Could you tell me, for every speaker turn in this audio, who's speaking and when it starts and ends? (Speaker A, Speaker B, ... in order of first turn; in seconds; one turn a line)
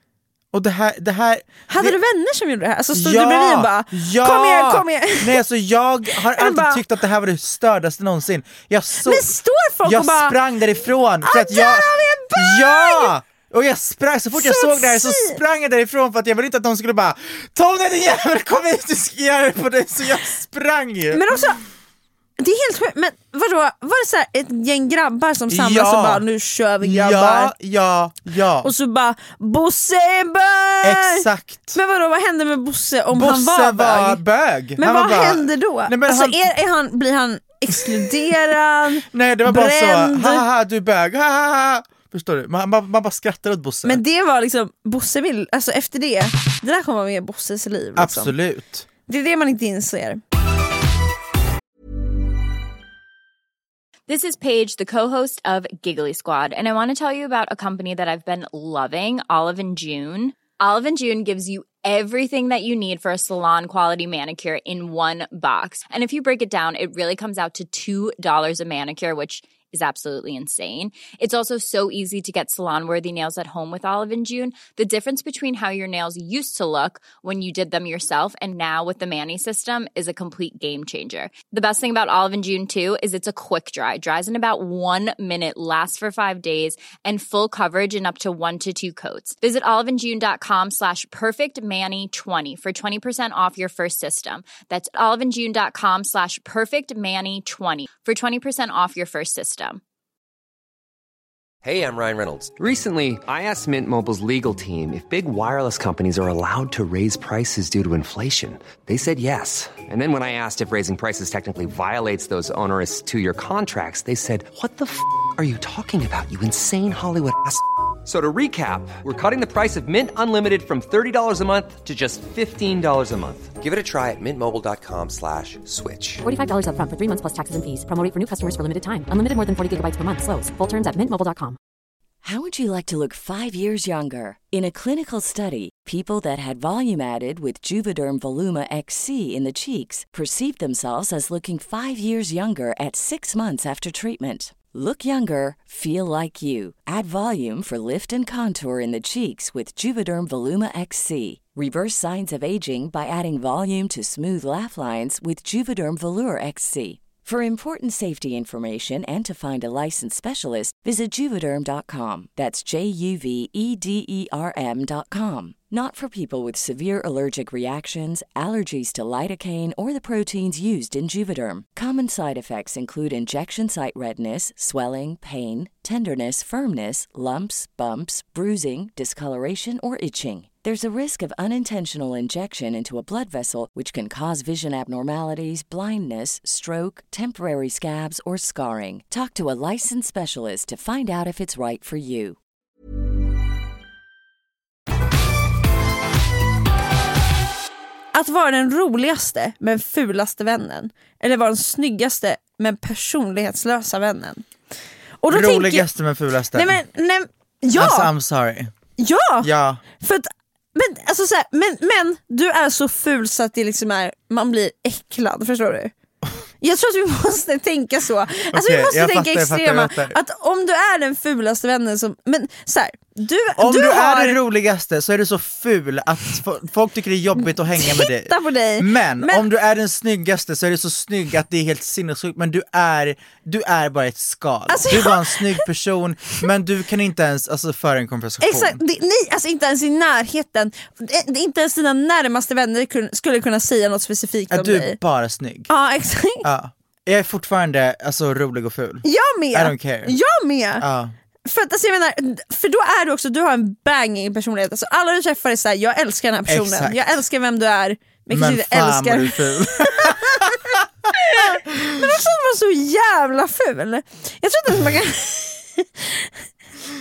Speaker A: 0.5-2.0
Speaker B: 1.7-5.4
Speaker A: 2.9-21.2
Speaker B: 6.3-6.8
Speaker B: 9.0-10.4
Speaker B: 11.2-13.1
Speaker B: 14.3-15.4
Speaker B: 21.1-21.6
Speaker B: 22.4-27.5
Speaker A: 25.5-26.2
Speaker A: 26.8-28.7
Speaker B: 28.6-34.2
Speaker A: 30.8-31.8
Speaker A: 33.1-36.5
Speaker B: 34.8-40.4
Speaker A: 39.0-44.0
Speaker B: 43.8-48.3
Speaker A: 48.0-48.9
Speaker B: 49.1-50.2
Speaker C: 54.1-99.8
Speaker D: 101.6-126.2
Speaker E: 126.3-131.5
Speaker F: 132.2-192.4
Speaker B: 198.1-204.4
Speaker B: 205.2-205.9
Speaker A: 205.3-206.8
Speaker B: 206.5-208.1
Speaker A: 207.7-208.7
Speaker B: 209.0-215.9
Speaker A: 209.4-209.8
Speaker B: 216.6-224.4
Speaker A: 218.5-220.2
Speaker A: 223.6-238.8
Speaker B: 227.7-229.5
Speaker B: 234.7-235.6
Speaker B: 238.4-245.0
Speaker A: 244.5-245.7
Speaker B: 245.7-246.5
Speaker A: 246.4-250.2
Speaker B: 249.0-250.8
Speaker A: 250.8-251.1
Speaker B: 251.4-266.3
Speaker A: 256.5-257.2
Speaker A: 258.3-260.8
Speaker A: 261.4-262.0